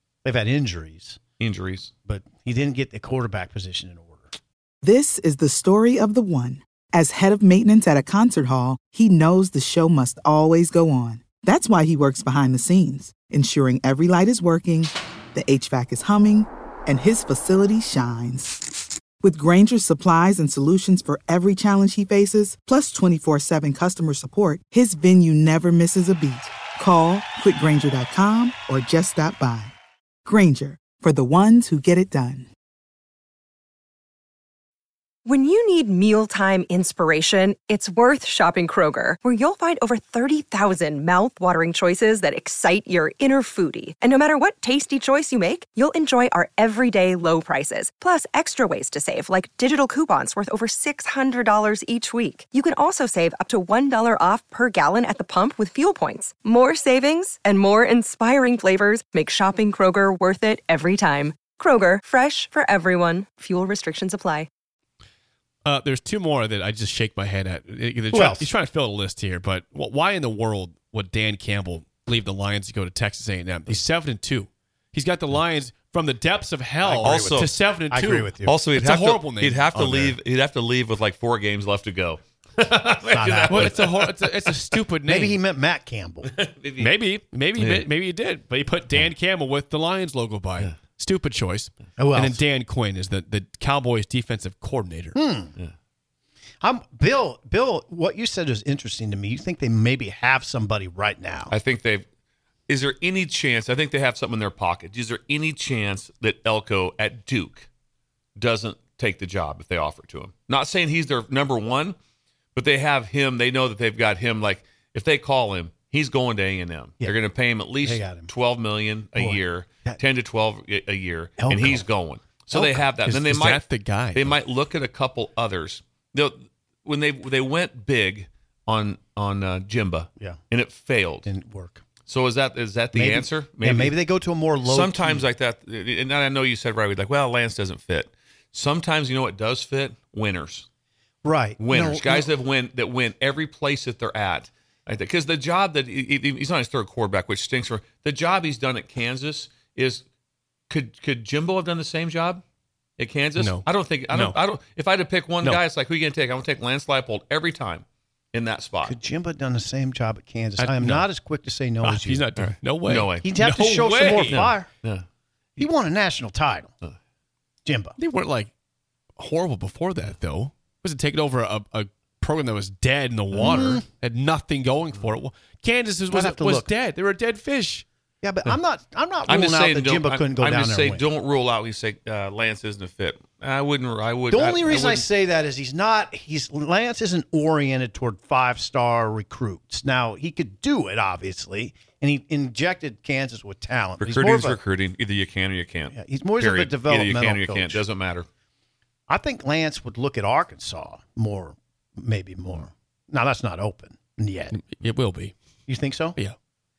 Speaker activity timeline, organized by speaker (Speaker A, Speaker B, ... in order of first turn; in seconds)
Speaker A: 0.2-1.2, 2.1-4.3, 68.1-68.5, 76.8-78.7, 79.8-80.2, 83.1-83.8, 85.1-86.3, 92.0-92.4, 95.2-95.5, 96.6-101.5, 117.7-118.3, 119.2-120.0, 121.4-121.9, 122.5-122.9, 131.2-131.8, 132.9-135.3, 141.2-142.3, 158.8-162.2, 163.2-164.7, 165.6-166.7, 167.7-168.0, 173.4-173.8, 176.1-176.7, 178.2-181.1, 184.3-194.6, 195.9-197.8, 199.1-204.5, 205.7-206.2
Speaker B: 1.4-1.9, 77.0-77.5, 78.4-84.6, 86.2-86.9, 87.6-87.9, 101.5-102.1, 102.7-107.7, 108.4-112.0, 112.5-131.3, 132.1-134.0, 134.6-140.7, 141.6-150.0, 150.7-152.4, 153.0-159.0, 162.4-163.3, 164.2-165.1, 179.3-185.1, 194.0-198.3
Speaker C: 4.8-18.6, 19.2-32.5
Speaker D: 35.3-64.5
Speaker E: 65.7-79.8, 83.5-85.4, 86.8-95.2, 123.0-124.3, 153.4-154.4, 160.6-161.1, 161.8-164.4, 168.0-168.5, 169.2-177.9, 204.5-205.3